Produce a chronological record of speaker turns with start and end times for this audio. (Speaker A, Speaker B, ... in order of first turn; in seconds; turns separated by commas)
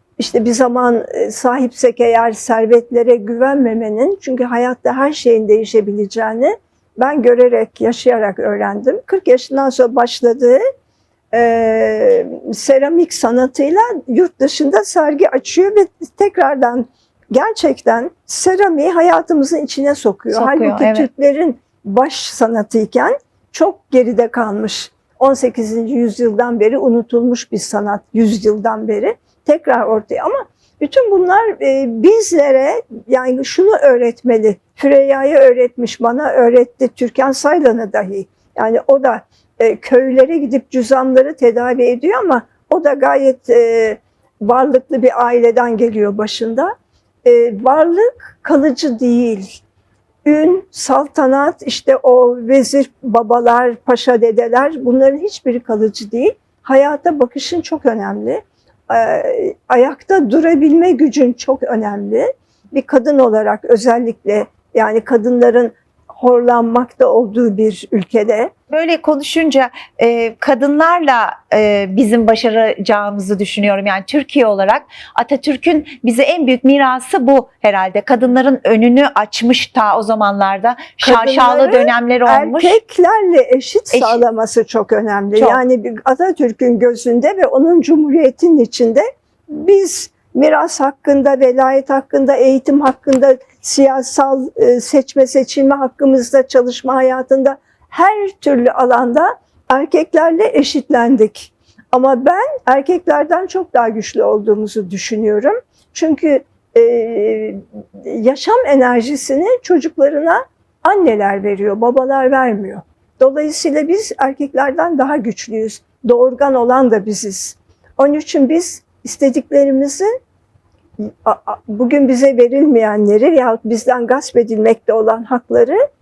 Speaker A: 0.2-10.6, Speaker A: 11.3-46.7, Speaker B: 20.3-21.1, Speaker A: 47.2-49.6, Speaker A: 50.3-68.5, Speaker B: 68.7-82.8, Speaker A: 81.0-120.1, Speaker B: 83.9-84.2, Speaker B: 85.4-85.6, Speaker A: 121.0-125.8